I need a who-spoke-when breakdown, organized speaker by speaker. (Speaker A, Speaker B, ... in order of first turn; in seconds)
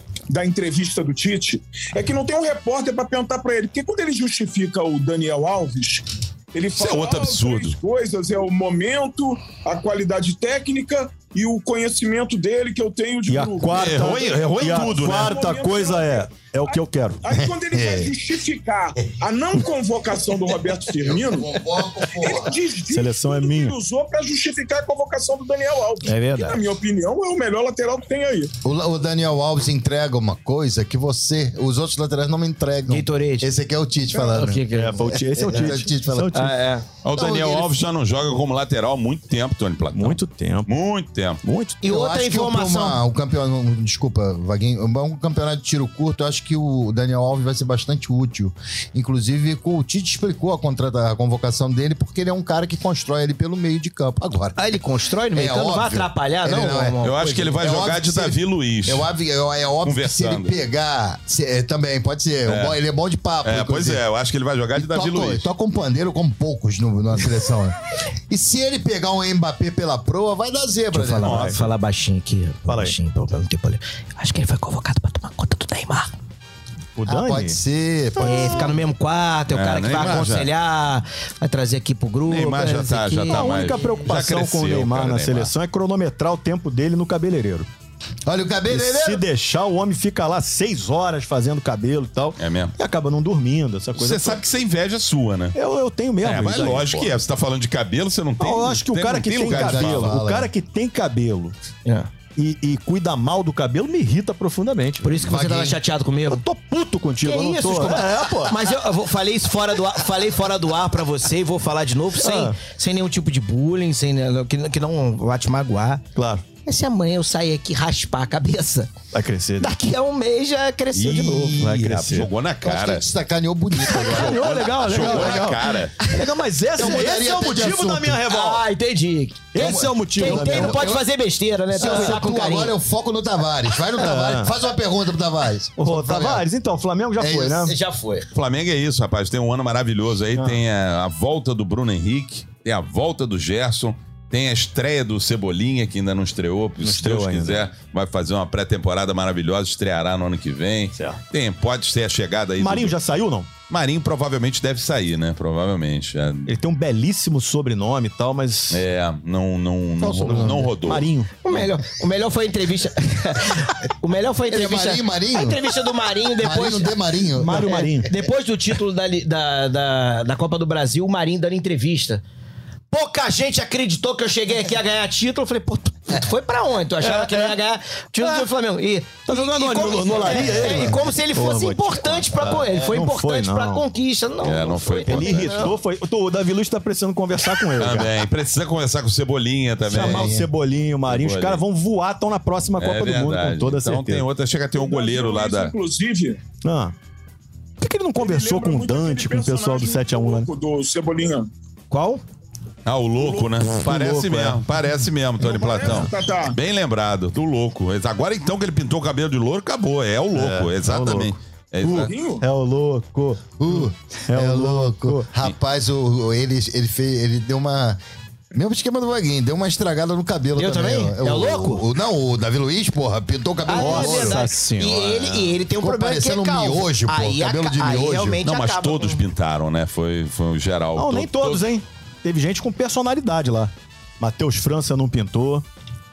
Speaker A: 0.3-28.5, 194.7-196.4, 198.2-201.5, 203.2-203.5, 205.4-206.6, 211.9-212.4
Speaker B: 6.8-7.8, 13.7-15.4, 37.0-41.4, 57.0-59.1, 59.8-60.5, 62.5-62.8, 63.4-65.5, 71.2-71.7, 79.5-80.5, 82.2-85.5, 92.4-92.7, 93.9-95.5, 96.2-100.2, 120.9-123.0, 123.9-126.1, 138.3-153.0, 153.7-156.5, 158.7-161.6, 184.4-185.8, 187.8-190.3, 191.1-191.6, 192.8-195.7, 202.8-212.1, 228.4-231.7
Speaker C: 13.3-17.2, 22.9-23.8, 26.0-26.6, 34.7-36.5, 39.9-40.7, 41.4-41.8, 71.2-71.6, 72.7-73.0, 77.0-77.6, 78.2-78.7, 83.3-87.7, 88.7-94.4, 95.5-97.1, 98.4-101.5, 102.3-105.2, 106.3-108.6, 112.2-112.6, 116.1-116.4, 119.1-119.7, 121.5-122.3, 124.0-128.7, 129.5-131.0, 131.8-132.2, 134.0-134.5, 135.8-137.7, 140.3-140.6, 146.8-147.7, 150.9-151.2, 152.6-153.5, 156.4-158.8, 160.2-161.3, 167.3-168.1, 177.0-177.6, 178.2-178.5, 179.2-183.8, 185.1-188.1, 189.9-194.2, 196.6-196.9, 197.8-200.5, 203.7-204.6, 210.3-215.3, 223.7-225.6, 230.9-235.6
Speaker D: 17.3-18.1, 21.0-22.6, 28.6-36.5, 37.1-37.7, 41.8-54.6, 55.3-57.0, 57.5-64.0, 64.8-67.7, 68.3-71.5, 77.1-78.7, 88.2-89.2, 99.5-100.5, 105.2-105.8, 122.6-125.3, 126.7-128.2, 129.6-131.0, 131.7-136.4, 137.2-137.7, 160.0-160.7, 164.5-165.6, 166.4-167.7, 189.9-190.5, 213.6-218.0, 218.5-224.5, 225.8-228.4
Speaker E: 32.9-33.5, 34.1-35.7, 36.3-36.9, 41.8-43.0, 54.6-57.6, 70.9-76.1, 78.2-84.0, 101.8-102.1, 105.0-106.4, 107.2-116.0, 116.6-118.9, 119.6-121.6, 125.0-125.3, 128.2-132.7, 137.6-138.3, 161.4-172.2, 172.9-185.8, 201.9-202.2, 220.6-221.8, 223.7-229.2